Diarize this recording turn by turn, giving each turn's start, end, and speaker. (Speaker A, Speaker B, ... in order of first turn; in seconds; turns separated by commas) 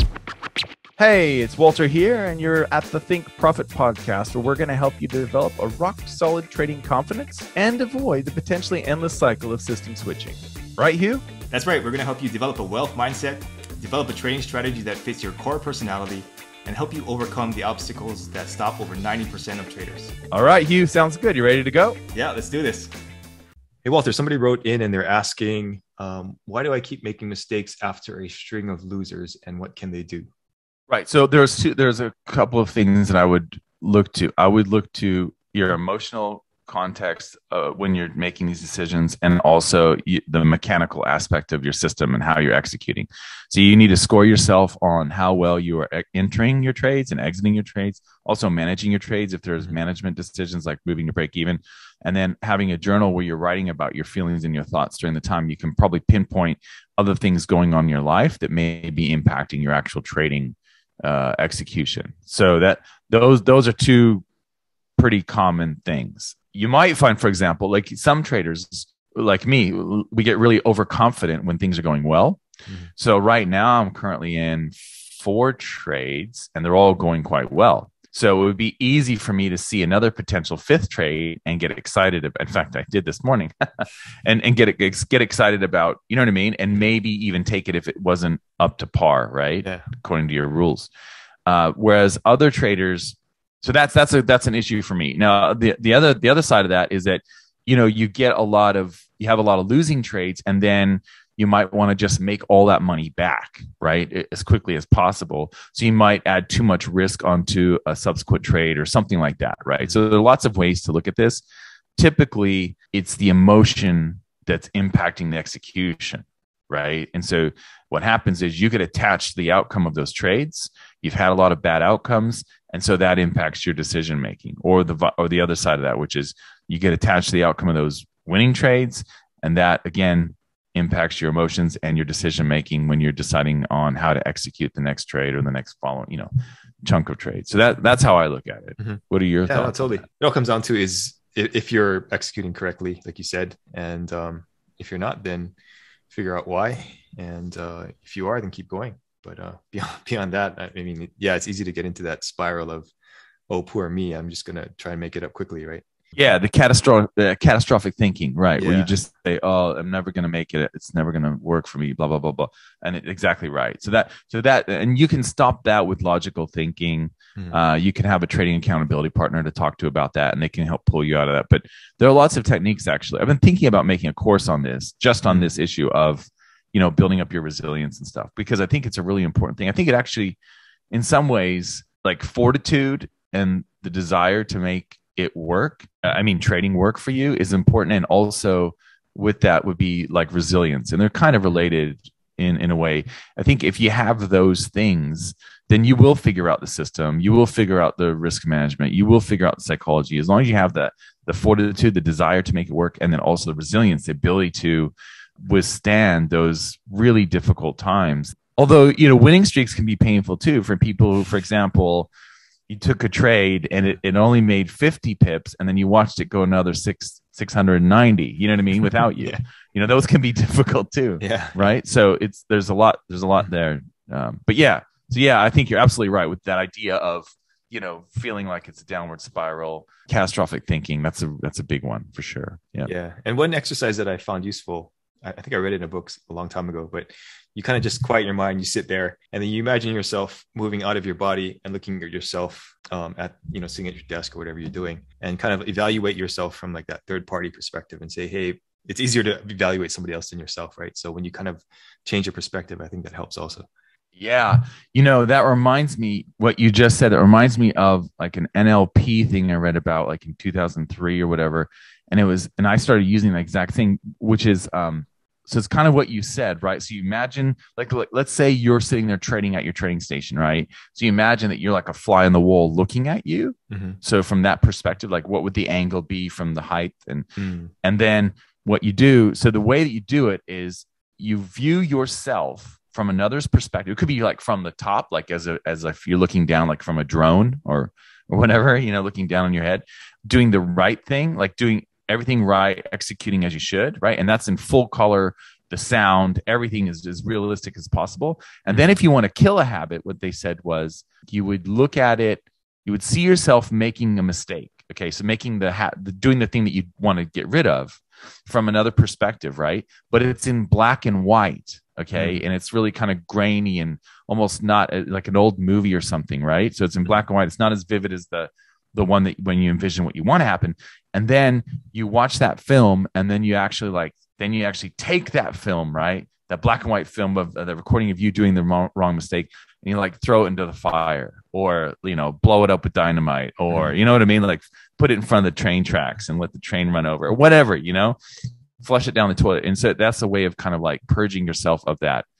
Speaker A: 1.0-11.2, Speaker B: 11.5-20.1, Speaker A: 20.3-22.0, Speaker B: 22.1-22.9, Speaker B: 23.8-30.3, Speaker A: 30.9-64.2, Speaker A: 65.0-72.4, Speaker A: 73.0-90.9, Speaker A: 91.5-111.4, Speaker A: 112.0-136.3, Speaker A: 136.8-140.0, Speaker B: 138.8-145.5, Speaker B: 146.1-152.9, Speaker B: 153.5-155.9, Speaker A: 156.2-180.4, Speaker B: 158.6-158.9, Speaker B: 175.2-175.5, Speaker A: 180.9-204.9, Speaker A: 205.4-212.1, Speaker A: 212.7-232.9, Speaker B: 221.2-221.7, Speaker B: 232.8-253.7, Speaker A: 254.2-277.3, Speaker B: 273.7-274.0, Speaker B: 277.4-277.7, Speaker A: 277.8-338.2, Speaker B: 298.7-299.0, Speaker B: 312.1-312.4, Speaker B: 333.7-334.0, Speaker A: 338.8-342.2